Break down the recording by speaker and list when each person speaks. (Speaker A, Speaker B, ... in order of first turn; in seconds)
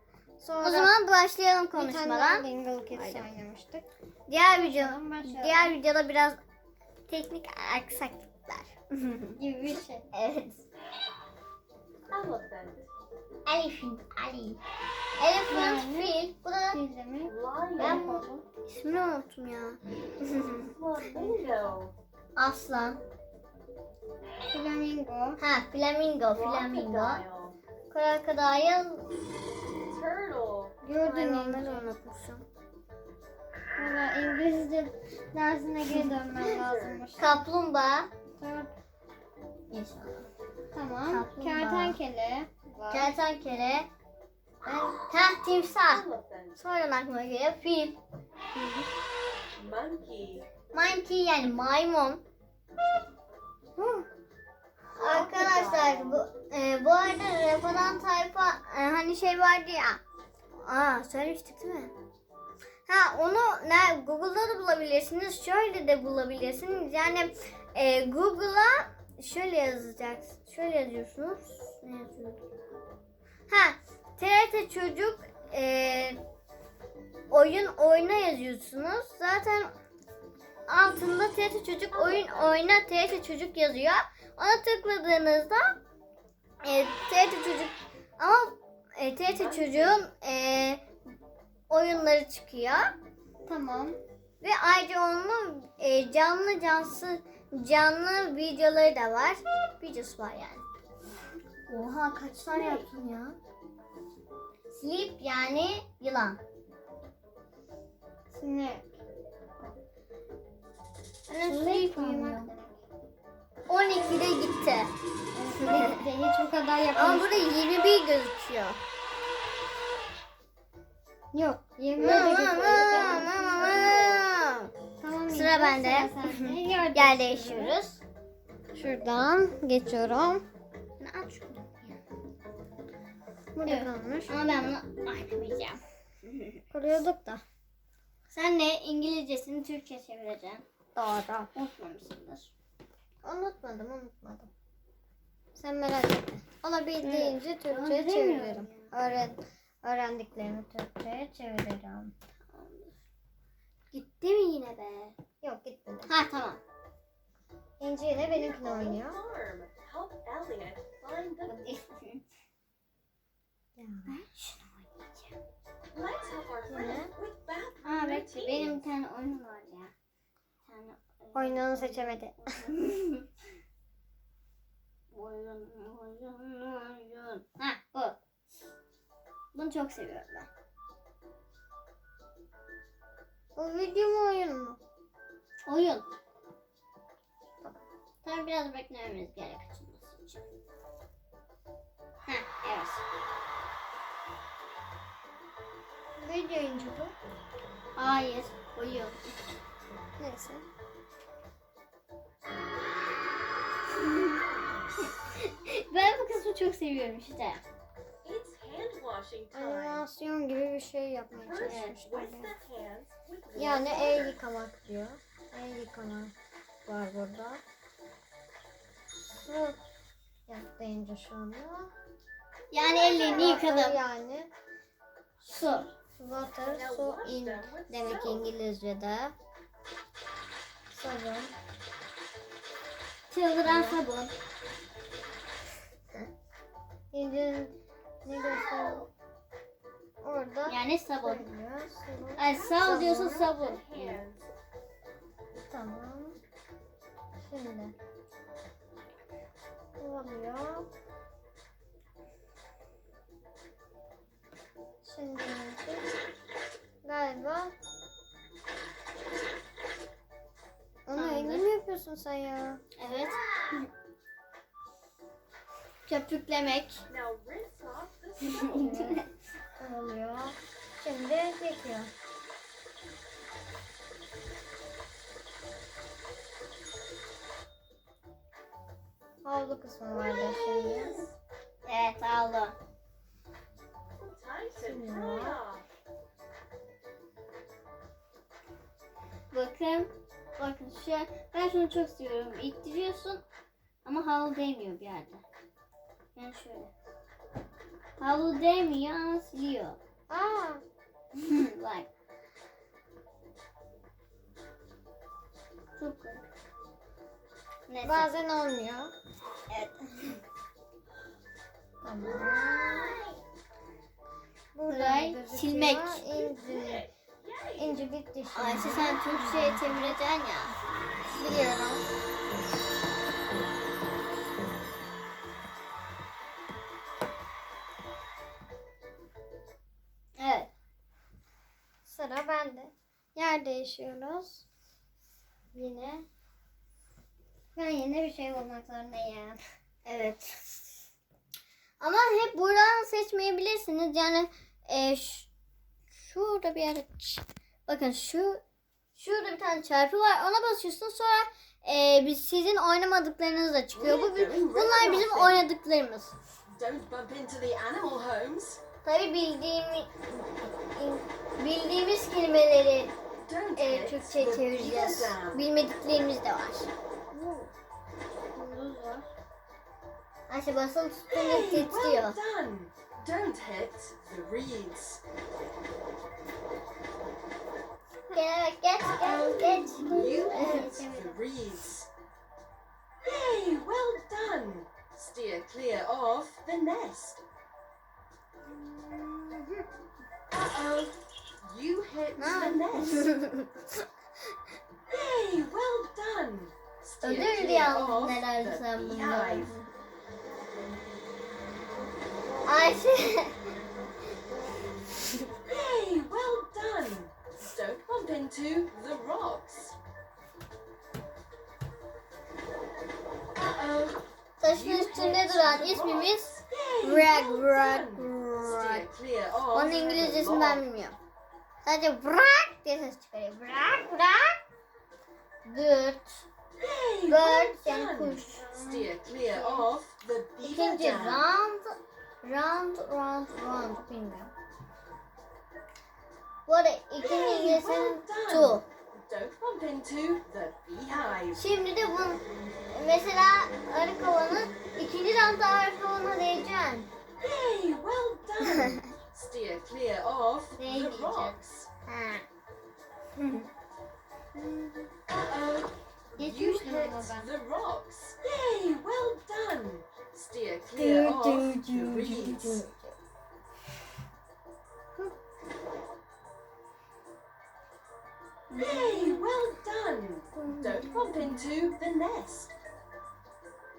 Speaker A: 0.4-0.9, 1.7-3.9, 4.6-5.8, 9.4-10.1, 15.5-18.4, 21.1-21.6, 24.5-25.4, 30.8-31.9, 33.8-37.4, 38.4-38.7, 40.7-43.1, 44.6-45.1, 48.5-48.9, 53.8-54.1, 93.5-94.0, 108.3-108.9, 111.4-112.8, 115.3-117.5, 121.3-124.0, 125.0-127.8, 128.8-130.4, 133.6-134.5, 136.7-137.4, 140.9-141.5, 143.2-144.5, 145.6-152.1, 155.4-156.1, 157.8-159.2, 163.8-164.1, 166.7-167.1, 171.3-172.5, 183.6-184.8, 196.2-197.2, 200.2-200.7, 209.5-212.6, 213.6-216.3, 216.9-217.6, 219.2-219.8, 220.5-221.9, 223.0-224.5, 226.2-227.9, 230.9-231.5, 233.6-234.0, 237.1-239.1, 240.2-242.5, 245.6-246.4, 247.4-247.9, 250.0-250.9, 255.0-256.1, 257.0-257.7, 261.1-262.8, 268.8-269.2, 269.8-272.1, 279.4-281.3, 284.8-285.6, 300.3-300.8, 308.0-309.1, 312.0-313.1, 314.7-317.1, 317.8-320.2, 321.3-322.1, 332.1-334.6, 335.7-336.3, 337.8-339.6, 367.3-367.7, 368.6-369.3, 379.3-381.4, 388.7-389.9, 428.4-429.9, 454.6-455.1, 456.4-457.5, 460.9-463.2, 470.6-471.7
Speaker B: 0.6-3.3, 4.3-6.4, 7.1-9.4, 10.1-10.7, 13.5-14.6, 15.2-16.8, 17.8-20.7, 22.4-23.0, 25.4-27.2, 27.9-29.1, 31.0-32.5, 37.2-38.1, 39.7-40.3, 41.1-42.0, 42.9-43.9, 45.0-48.0, 50.7-52.2, 55.0-60.0, 60.6-61.9, 62.9-72.4, 73.5-76.2, 77.3-79.7, 80.7-85.8, 86.6-90.8, 91.7-92.9, 94.4-100.6, 101.7-103.4, 104.7-106.4, 111.3-112.5, 113.7-114.9, 115.6-116.0, 117.0-118.8, 122.0-124.7, 125.3-128.0, 131.0-132.0, 133.7-136.7, 138.3-140.6, 141.5-142.5, 147.0-148.9, 152.5-152.9, 153.9-155.2, 156.1-156.6, 161.5-162.2, 164.1-165.4, 167.8-169.9, 170.6-173.3, 175.1-178.2, 179.5-180.5, 185.7-186.1, 188.2-190.4, 192.3-193.0, 198.0-199.4, 204.0-204.4, 205.0-207.6, 211.6-212.0, 222.7-224.0, 225.4-225.9, 227.9-229.3, 233.3-234.3, 238.4-239.1, 240.7-241.5, 242.4-244.2, 261.1-261.7, 263.0-263.9, 266.1-267.0, 268.6-269.3, 281.9-282.8, 289.5-293.4, 294.1-295.4, 296.4-296.9, 298.2-300.0, 301.3-302.1, 306.0-306.4, 307.9-308.3, 309.7-310.4, 312.2-313.3, 314.9-316.2, 318.5-320.8, 330.4-330.7, 340.1-340.9, 342.0-345.5, 346.2-348.6, 349.1-356.4, 359.0-363.1, 363.8-366.9, 370.5-372.4, 378.3-381.0, 392.4-393.8, 397.2-399.9, 402.6-403.6, 414.6-419.1, 419.7-421.2, 421.8-424.6, 425.6-426.5, 427.3-428.6, 430.6-434.5, 436.7-438.9, 441.6-447.1, 450.8-452.4, 453.4-453.7, 468.7-469.5
Speaker C: 12.1-12.9, 17.2-18.4, 20.5-21.9, 26.3-27.6, 29.9-30.8, 36.3-37.1, 45.9-46.6, 49.6-50.5, 54.9-56.2, 82.0-82.4, 89.3-90.1, 102.5-102.9, 122.0-124.2, 158.1-161.6, 165.9-168.9, 208.2-210.1, 211.3-214.4, 226.6-228.6, 242.5-244.4, 267.1-269.0, 280.1-281.4, 284.2-285.9, 316.3-318.1, 353.9-355.7, 356.7-358.8, 363.4-365.7, 371.3-375.2, 379.2-382.1, 383.2-387.4, 390.7-393.3, 395.1-399.7, 405.6-410.0, 413.8-420.8, 426.8-431.5, 437.2-441.6, 447.4-451.9, 455.5-462.9, 468.7-472.7